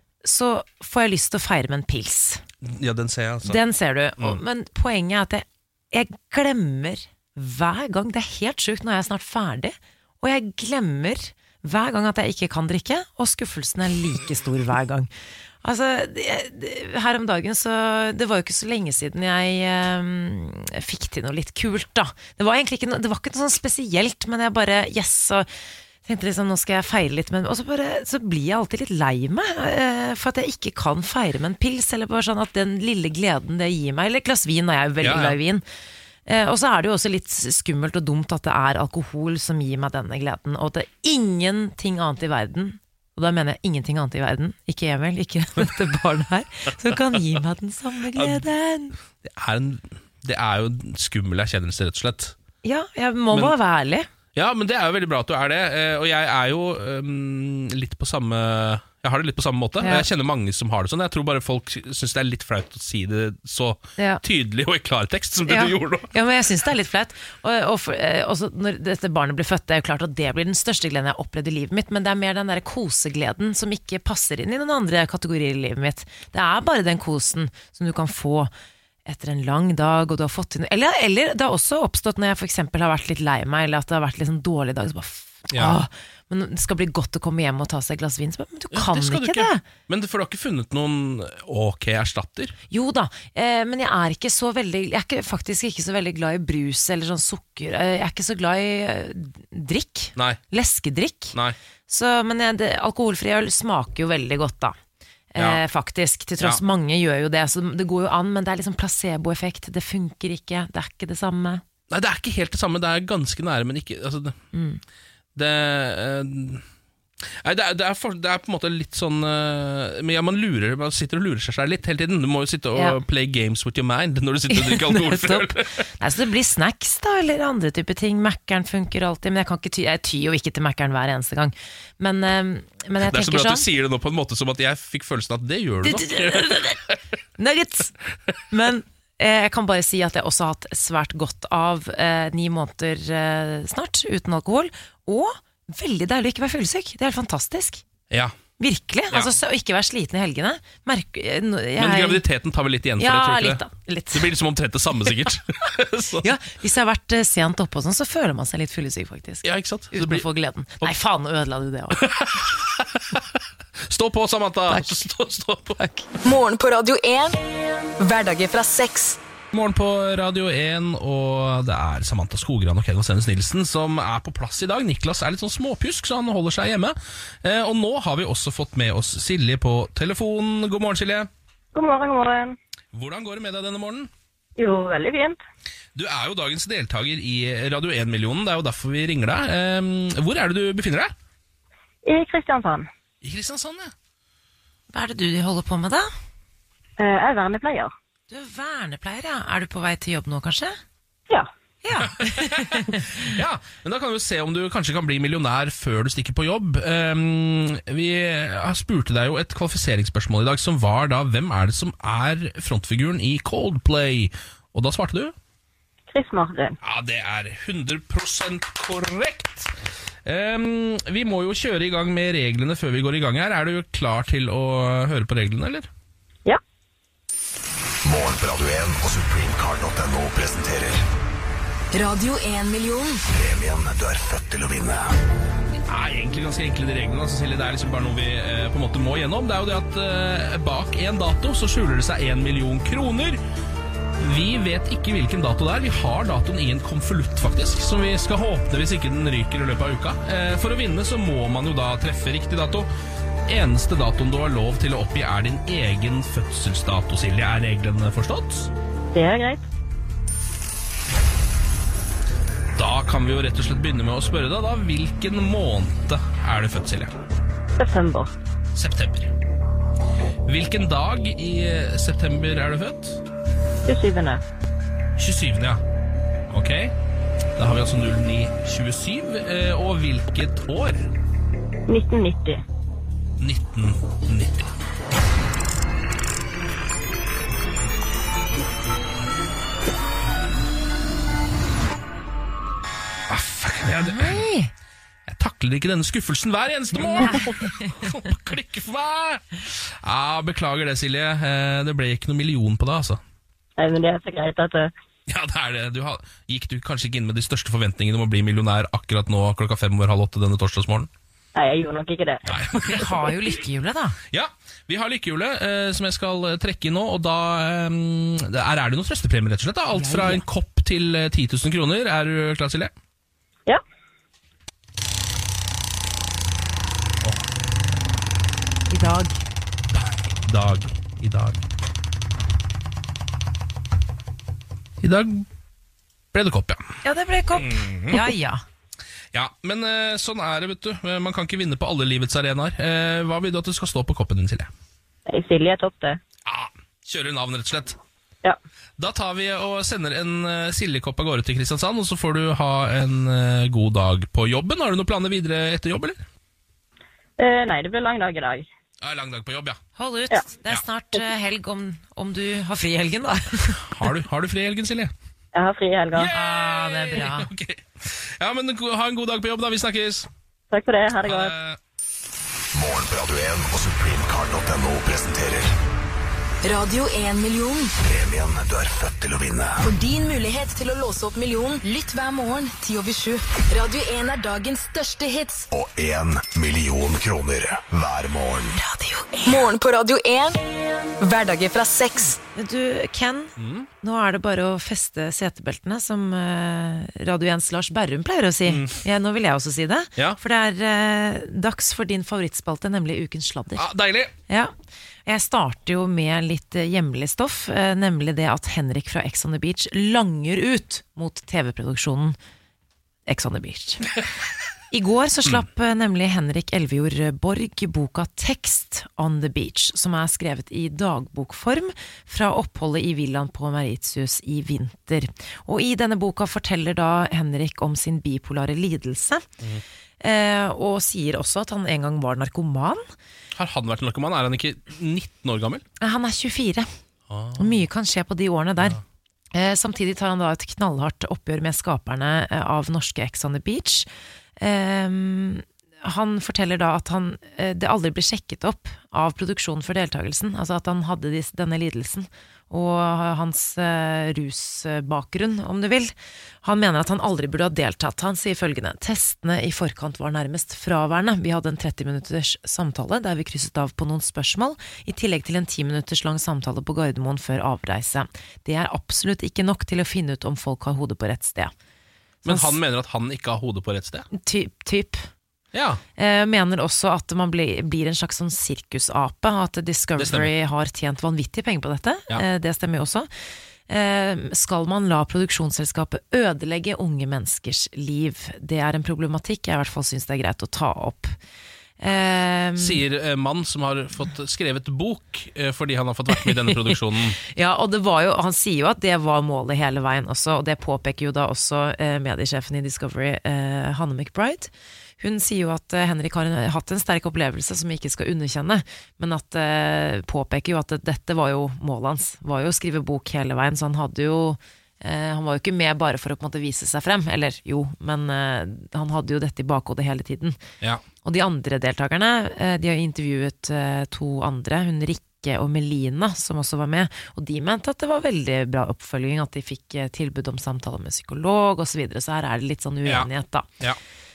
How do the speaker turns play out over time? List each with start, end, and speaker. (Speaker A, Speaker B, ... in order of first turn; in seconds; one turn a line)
Speaker A: 0.2-2.4
Speaker B: 2.6-3.6
Speaker A: 3.4-15.1
Speaker A: 15.6-25.5
Speaker A: 26.0-35.6
Speaker B: 35.0-35.4
Speaker A: 36.2-49.0
Speaker B: 49.2-52.3
Speaker A: 52.6-54.1
Speaker B: 54.3-66.1
Speaker A: 59.8-60.1
Speaker A: 64.0-64.2
Speaker A: 65.5-78.5
Speaker A: 79.0-89.6
Speaker B: 85.5-85.8
Speaker B: 88.7-92.5
Speaker A: 92.7-101.3
Speaker A: 101.9-104.8
Speaker A: 105.3-111.6
Speaker B: 111.9-114.4
Speaker A: 114.5-114.8
Speaker B: 115.3-116.6
Speaker B: 117.4-125.8
Speaker A: 124.5-133.7
Speaker B: 133.0-136.9
Speaker A: 135.8-136.8
Speaker A: 137.4-137.9
Speaker A: 138.5-147.8
Speaker B: 148.1-148.4
Speaker A: 148.6-152.2
Speaker B: 151.8-153.6
Speaker A: 153.0-154.3
Speaker B: 154.1-156.3
Speaker A: 156.2-162.1
Speaker B: 159.4-160.3
Speaker B: 162.0-165.8
Speaker A: 164.7-164.9
Speaker A: 165.8-166.1
Speaker C: 166.2-169.2
Speaker B: 169.5-181.3
Speaker D: 181.7-182.6
Speaker B: 182.9-184.1
Speaker D: 184.6-185.4
Speaker B: 185.9-191.1
Speaker D: 192.0-192.9
Speaker B: 193.2-193.9
Speaker A: 194.9-196.1
Speaker D: 197.0-197.9
Speaker A: 198.3-200.8
Speaker A: 201.8-203.3
Speaker B: 202.0-215.3
Speaker D: 216.1-216.8
Speaker B: 216.8-219.7
Speaker B: 220.2-225.9
Speaker E: 228.0-231.0
Speaker C: 231.9-233.2
Speaker E: 233.3-235.1
Speaker B: 235.9-243.4
Speaker B: 244.2-252.9
Speaker B: 253.5-258.7
Speaker D: 259.1-259.6
Speaker B: 262.8-267.1
Speaker D: 267.8-268.3
Speaker B: 268.7-269.3
Speaker B: 270.4-273.2
Speaker D: 273.9-274.4
Speaker B: 275.2-275.8
Speaker B: 276.5-276.9
Speaker B: 277.6-281.1
Speaker D: 281.9-282.6
Speaker B: 283.4-284.7
Speaker B: 293.3-294.4
Speaker A: 294.0-294.7
Speaker B: 295.3-303.2
Speaker A: 297.2-297.5
Speaker D: 303.8-304.9
Speaker B: 305.3-311.1
Speaker D: 311.6-312.4
Speaker B: 312.4-313.1
Speaker A: 312.8-314.2
Speaker B: 314.3-322.9
Speaker A: 319.9-320.4
Speaker A: 328.9-329.3
Speaker B: 330.4-331.6
Speaker B: 335.0-335.4
Speaker B: 336.3-336.8
Speaker A: 337.0-338.6
Speaker B: 337.6-338.2
Speaker B: 339.3-344.7
Speaker D: 345.3-346.2
Speaker B: 346.4-347.9
Speaker B: 349.0-356.2
Speaker D: 357.4-358.6
Speaker B: 359.0-359.8
Speaker A: 359.9-363.9
Speaker B: 363.8-365.1
Speaker D: 365.5-366.3
Speaker B: 366.1-370.3
Speaker A: 366.3-367.5
Speaker D: 370.7-371.5
Speaker B: 371.3-371.8
Speaker E: 372.7-375.7
Speaker C: 376.6-377.9
Speaker E: 378.0-379.9
Speaker C: 379.8-385.7
Speaker E: 385.7-388.8
Speaker C: 389.4-392.4
Speaker A: 392.5-403.9
Speaker B: 393.6-393.9
Speaker B: 398.7-399.0
Speaker B: 403.7-404.3
Speaker A: 404.5-404.7
Speaker A: 405.2-412.4
Speaker A: 413.3-414.1
Speaker A: 414.9-429.5
Speaker A: 430.2-433.0
Speaker B: 433.6-435.8
Speaker A: 436.0-436.9
Speaker B: 437.3-437.7
Speaker A: 437.6-439.0
Speaker A: 439.5-471.7
Speaker A: 472.4-472.7
Speaker B: 472.4-474.3
Speaker A: 474.3-475.3
Speaker B: 475.7-476.0
Speaker A: 476.2-483.3
Speaker B: 480.2-480.5
Speaker A: 483.9-491.4
Speaker A: 492.0-493.0
Speaker B: 492.8-497.4
Speaker A: 496.4-520.6
Speaker A: 521.2-533.7